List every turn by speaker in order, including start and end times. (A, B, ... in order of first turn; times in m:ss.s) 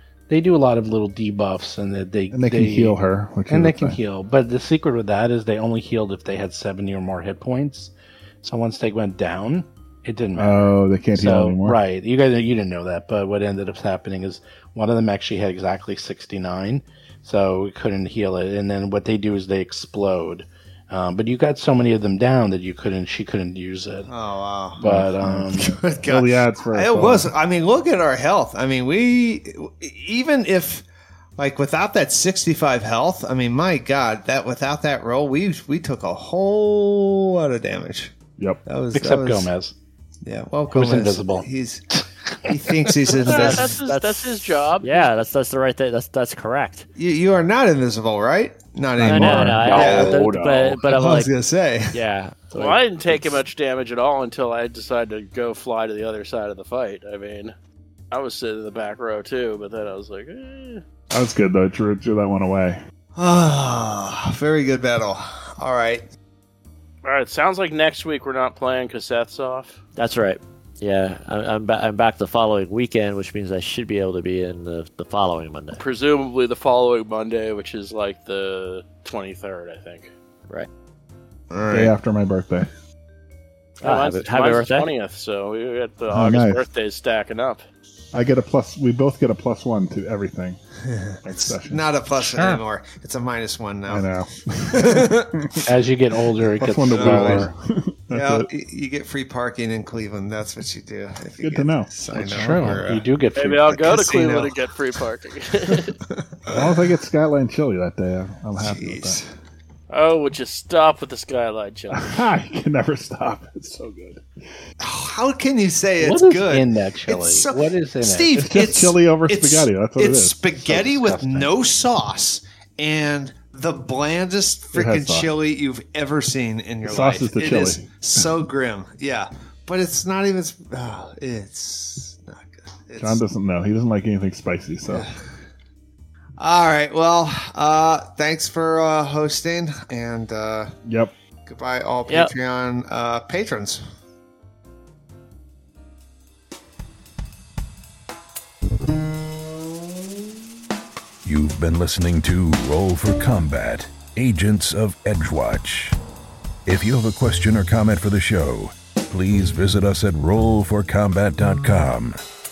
0:00.3-0:03.0 A
0:02.3-0:04.0 B
0:03.5-0:24.1 A
0:10.4-0:11.8 B
0:24.1-0:24.8 C
0:24.8-0:25.7 A
0:24.8-0:27.3 B
0:25.6-0:30.9 C
0:31.4-0:38.2 C
0:38.7-0:39.5 C
0:38.9-0:39.8 A
0:40.2-0:41.8 C
0:40.7-0:42.9 A
0:42.5-0:43.8 C
0:43.2-0:46.9 D
0:43.3-0:45.1 E
0:47.0-0:50.1 C
0:49.0-0:50.8 B
0:49.0-0:51.3 D
0:49.4-0:50.5 A
0:50.9-0:52.0 C
0:51.9-0:53.4 D
0:52.5-0:57.5 E
0:58.1-1:00.8 E
1:01.1-1:02.8 B
1:03.2-1:06.1 C
1:07.0-1:09.8 E
1:10.0-1:15.8 D
1:15.8-1:20.1 E
1:21.5-1:21.9 C
1:21.7-1:22.7 B
1:23.8-1:27.6 E
1:23.8-1:24.9 D
1:26.1-1:26.6 B
1:28.1-1:30.6 B
1:30.9-1:34.1 C
1:31.2-1:32.6 B
1:33.9-1:35.6 B
1:34.7-1:35.6 C
1:35.7-1:37.5 A
1:36.6-1:38.5 B
1:36.9-1:37.5 C
1:38.1-1:44.7 C
1:41.4-1:41.9 B
1:42.1-1:43.6 A
1:43.4-1:45.9 E
1:45.7-1:46.8 C
1:46.5-1:49.2 B
1:48.6-1:49.3 C
1:49.9-1:52.2 E
1:51.9-1:54.2 B
1:54.8-2:13.2 C
1:56.0-1:58.3 A
1:58.4-2:00.4 B
2:00.6-2:01.5 A
2:04.7-2:05.3 B
2:06.8-2:08.3 B
2:13.0-2:15.1 B
2:14.9-2:15.3 C
2:16.4-2:20.7 C
2:20.9-2:21.1 B
2:21.5-2:23.8 C
2:22.1-2:22.3 D
2:31.2-2:36.0 F
2:36.7-2:42.2 F